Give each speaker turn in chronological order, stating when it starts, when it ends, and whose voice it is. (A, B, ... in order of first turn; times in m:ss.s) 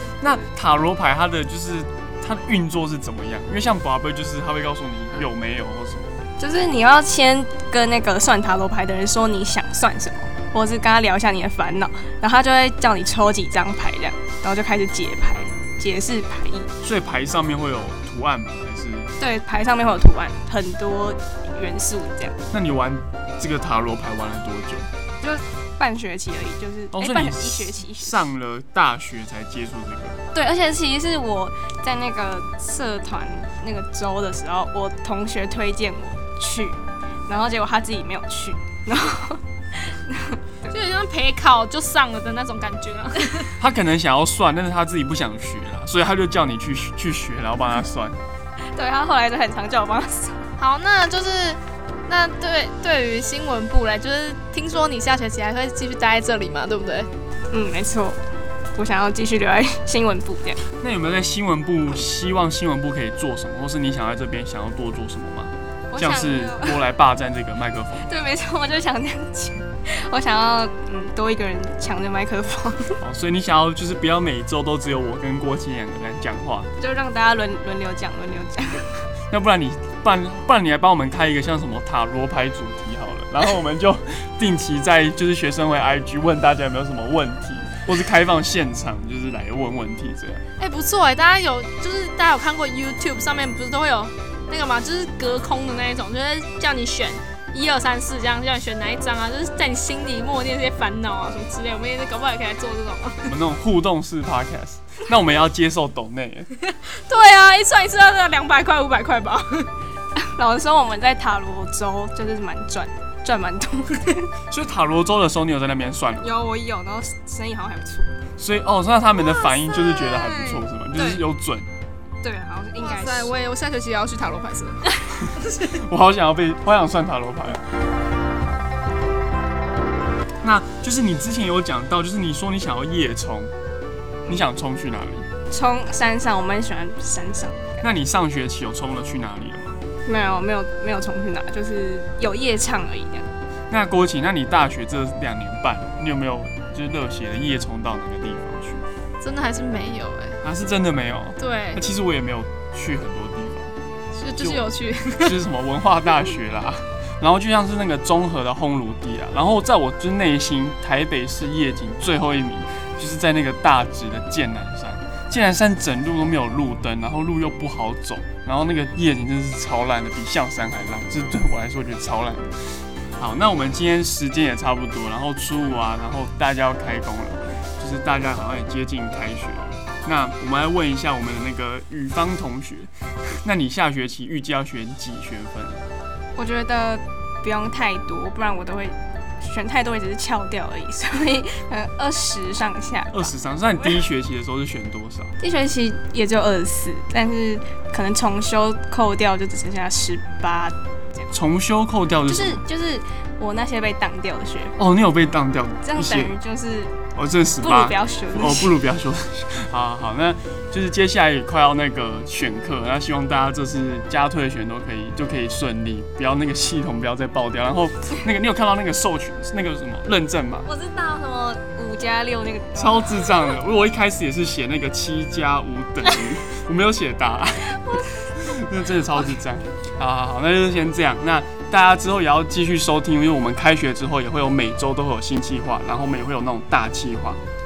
0:00.2-0:06.2 A
0:06.4-0:16.7 B
0:16.8-0:19.1 A
0:19.2-0:22.4 B
0:22.5-0:24.9 A
0:25.2-0:28.3 B
0:26.9-0:30.2 A
0:30.3-0:40.7 B
0:40.7-0:43.5 C
0:43.6-0:48.2 A
0:48.7-0:50.5 B
0:50.6-0:57.1 C
0:57.5-0:58.2 B
0:58.7-1:00.6 B
1:00.8-1:08.3 A
1:05.9-1:06.8 B
1:08.0-1:13.0 B
1:13.0-1:16.7 A
1:16.8-1:19.0 B
1:19.3-1:30.4 A
1:30.6-1:43.3 C
1:43.2-1:46.5 A
1:46.8-1:49.7 C
1:50.2-1:54.3 B
1:54.5-1:56.3 A
1:56.2-1:58.1 B
1:58.4-2:01.7 A
1:59.4-2:00.6 C
2:02.2-2:03.3 B
2:02.8-2:04.9 C
2:05.5-2:07.6 A
2:10.4-2:13.5 A
2:14.3-2:15.3 A
2:15.5-2:17.8 B
2:17.8-2:19.8 A
2:20.0-2:23.3 B
2:23.7-2:28.8 A
2:29.2-2:30.4 C
2:30.4-2:33.7 A
2:31.4-2:31.8 C
2:34.1-2:35.4 C
2:34.4-2:52.6 A
2:53.2-3:02.9 A
3:03.4-3:05.8 A
3:06.3-3:13.4 B
3:13.1-3:15.3 A
3:15.4-3:21.3 B
3:21.3-3:22.6 A
3:22.2-3:24.8 B
3:24.8-3:26.3 A
3:25.8-3:26.9 B
3:27.1-3:40.7 A
3:27.6-3:28.7 B
3:40.6-3:43.5 B
3:42.8-3:57.4 A
3:47.7-3:48.0 B